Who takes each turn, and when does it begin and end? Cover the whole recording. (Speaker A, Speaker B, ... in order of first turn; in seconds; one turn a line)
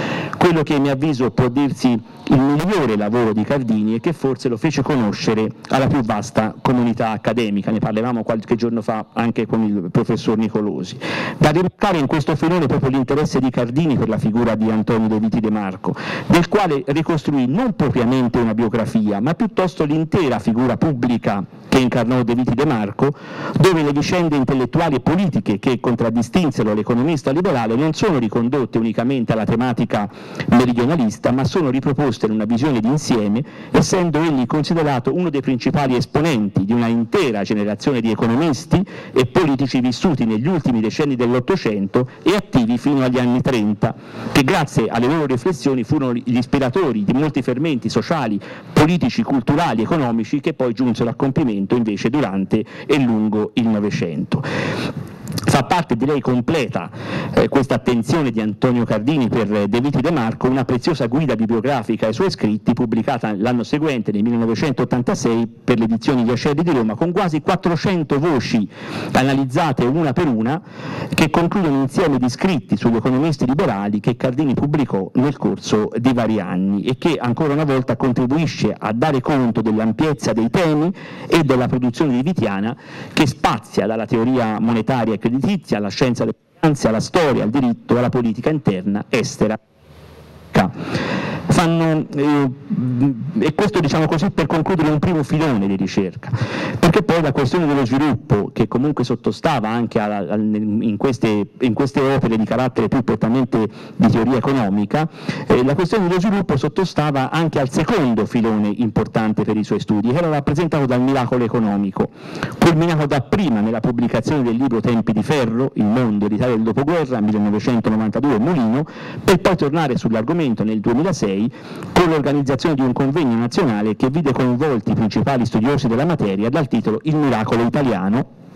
Speaker A: 0.4-54.5
Speaker A: 55.5-70.6
Speaker A: 71.1-89.6
Speaker A: 91.5-128.3